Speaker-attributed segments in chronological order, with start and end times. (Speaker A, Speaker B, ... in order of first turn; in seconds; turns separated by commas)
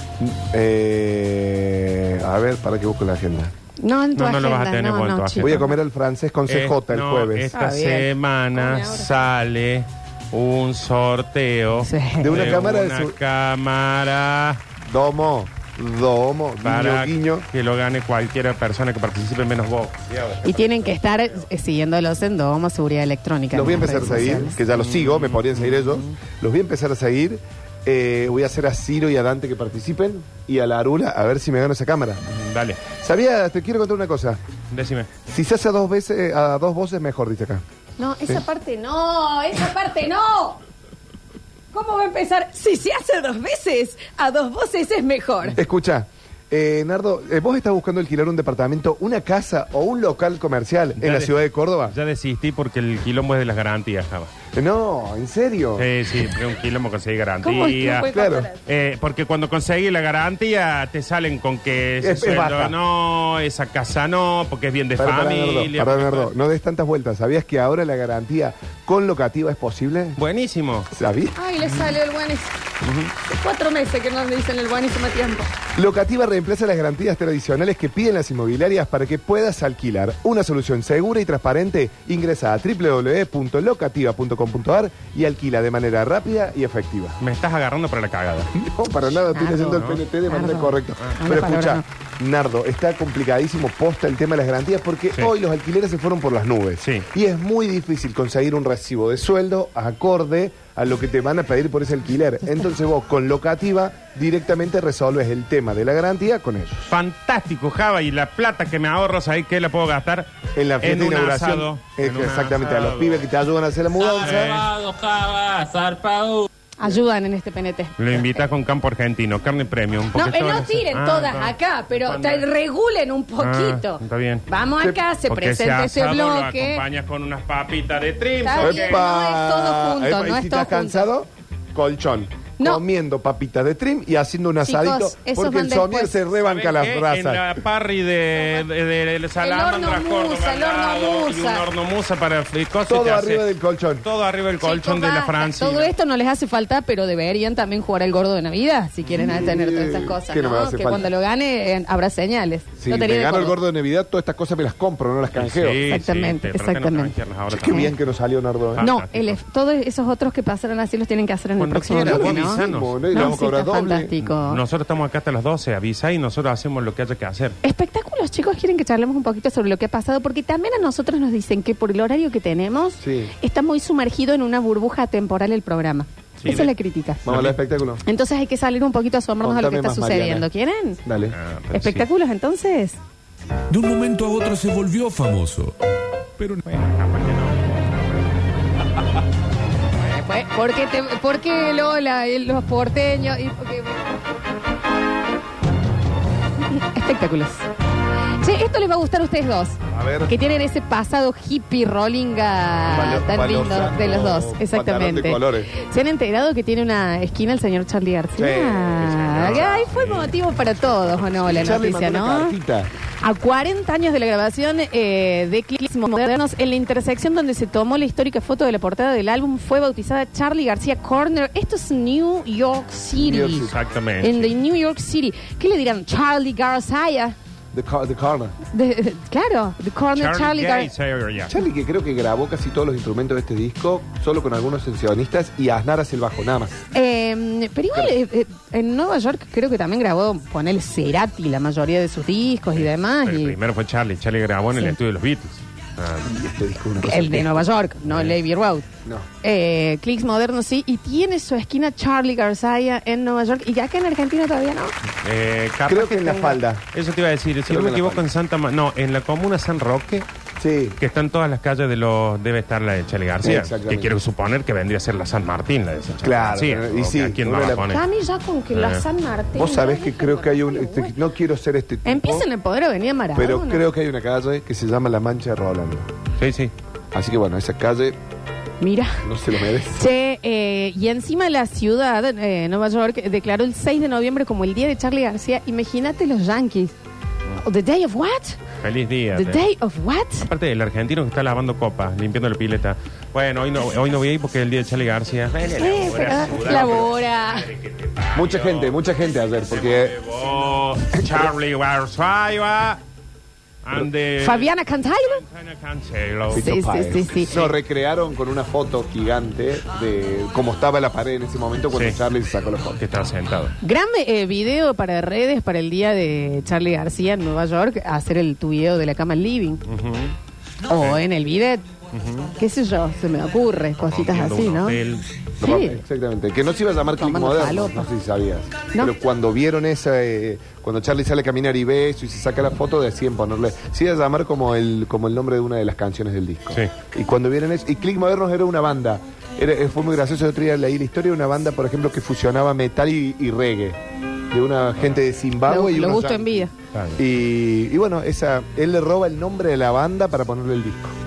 Speaker A: 0.2-3.5, Speaker B: 3.8-5.7, Speaker C: 4.2-5.7, Speaker A: 5.4-7.5, Speaker C: 6.5-14.6, Speaker B: 7.5-9.3, Speaker B: 11.8-12.5, Speaker A: 12.2-13.2, Speaker A: 14.8-17.5, Speaker C: 16.6-21.3, Speaker B: 20.4-24.6, Speaker A: 23.5-32.2, Speaker C: 24.7-26.1, Speaker C: 32.3-32.8, Speaker A: 32.9-34.4, Speaker C: 34.7-35.1, Speaker A: 35.3-37.6, Speaker B: 38.0-40.6, Speaker B: 41.7-45.6, Speaker A: 45.5-52.0, Speaker C: 51.0-54.3, Speaker A: 54.5-55.9, Speaker C: 55.8-58.1, Speaker B: 57.4-58.6, Speaker A: 58.1-58.5, Speaker C: 58.6-66.3, Speaker A: 62.0-62.8, Speaker A: 65.0-70.2, Speaker C: 70.2-70.9, Speaker A: 70.9-71.3, Speaker B: 71.4-72.5, Speaker C: 72.8-73.1, Speaker B: 73.3-75.5, Speaker A: 75.8-87.2, Speaker C: 87.2-88.5, Speaker A: 88.5-106.9, Speaker B: 89.3-91.8, Speaker C: 89.7-90.0, Speaker C: 106.9-110.3, Speaker A: 110.6-114.6, Speaker C: 110.8-113.2, Speaker D: 114.0-116.5, Speaker C: 114.2-114.7, Speaker B: 116.8-118.4, Speaker C: 118.0-122.5, Speaker B: 120.1-126.8, Speaker C: 123.4-124.5, Speaker C: 125.3-129.0, Speaker B: 128.4-131.1, Speaker A: 128.6-137.5, Speaker B: 134.6-136.2, Speaker C: 136.4-143.5, Speaker B: 139.4-141.7, Speaker A: 142.9-144.1, Speaker C: 144.0-145.9, Speaker B: 144.6-153.6, Speaker A: 149.2-151.1, Speaker A: 152.8-155.8, Speaker C: 155.4-157.9, Speaker B: 155.9-157.1, Speaker A: 157.5-158.9, Speaker C: 158.7-159.4, Speaker B: 158.8-164.6, Speaker C: 161.6-163.3, Speaker A: 161.9-164.1, Speaker C: 164.2-167.6, Speaker B: 167.6-177.3, Speaker A: 173.0-173.3, Speaker C: 176.4-176.7, Speaker A: 177.2-178.0, Speaker C: 177.3-177.6, Speaker B: 178.0-181.0, Speaker A: 179.4-180.5, Speaker A: 181.1-181.4, Speaker C: 181.3-182.1, Speaker B: 181.7-183.0, Speaker E: 183.7-185.8, Speaker E: 186.4-186.6, Speaker C: 186.7-188.4, Speaker B: 190.0-194.1, Speaker B: 196.7-197.7, Speaker B: 198.4-212.6, Speaker A: 199.9-200.3, Speaker A: 202.9-205.7, Speaker A: 208.4-210.1, Speaker C: 209.0-211.8, Speaker A: 211.5-212.9, Speaker B: 213.2-223.7, Speaker A: 223.2-223.8, Speaker C: 223.7-224.5, Speaker B: 224.2-227.4, Speaker A: 227.7-228.6, Speaker B: 228.7-230.9, Speaker C: 230.2-231.6, Speaker A: 231.5-236.8, Speaker B: 236.9-243.6, Speaker C: 242.8-246.3, Speaker A: 246.2-247.7, Speaker B: 247.0-248.9, Speaker C: 248.1-248.4, Speaker B: 249.4-254.9, Speaker C: 255.2-260.3, Speaker A: 255.9-256.9, Speaker A: 257.7-258.3, Speaker A: 260.6-261.0, Speaker C: 261.0-268.0, Speaker A: 263.4-264.1, Speaker A: 266.2-267.9, Speaker B: 267.8-271.1, Speaker C: 268.7-269.0, Speaker A: 269.6-272.5, Speaker B: 272.1-273.8, Speaker A: 273.4-276.1, Speaker C: 276.4-276.7, Speaker A: 277.1-278.2, Speaker B: 278.8-279.2, Speaker A: 279.2-280.0, Speaker B: 279.9-286.9, Speaker B: 287.6-288.6, Speaker C: 288.8-289.6, Speaker B: 289.3-290.5, Speaker C: 290.5-299.0, Speaker B: 295.8-297.7, Speaker A: 296.5-297.1, Speaker A: 298.3-300.2, Speaker C: 299.6-303.0, Speaker A: 301.2-301.5, Speaker C: 303.8-306.7, Speaker B: 304.4-305.4, Speaker A: 306.5-313.0, Speaker B: 306.6-307.5, Speaker C: 307.4-307.7, Speaker C: 311.9-312.2, Speaker C: 313.0-313.7, Speaker B: 313.8-319.8, Speaker C: 319.9-320.4, Speaker B: 320.9-321.9, Speaker C: 322.1-322.5, Speaker B: 322.6-325.0, Speaker C: 324.0-325.3, Speaker B: 325.6-326.0, Speaker A: 325.6-344.0, Speaker B: 327.2-328.1, Speaker A: 344.5-351.1, Speaker B: 345.7-346.7, Speaker C: 346.9-347.2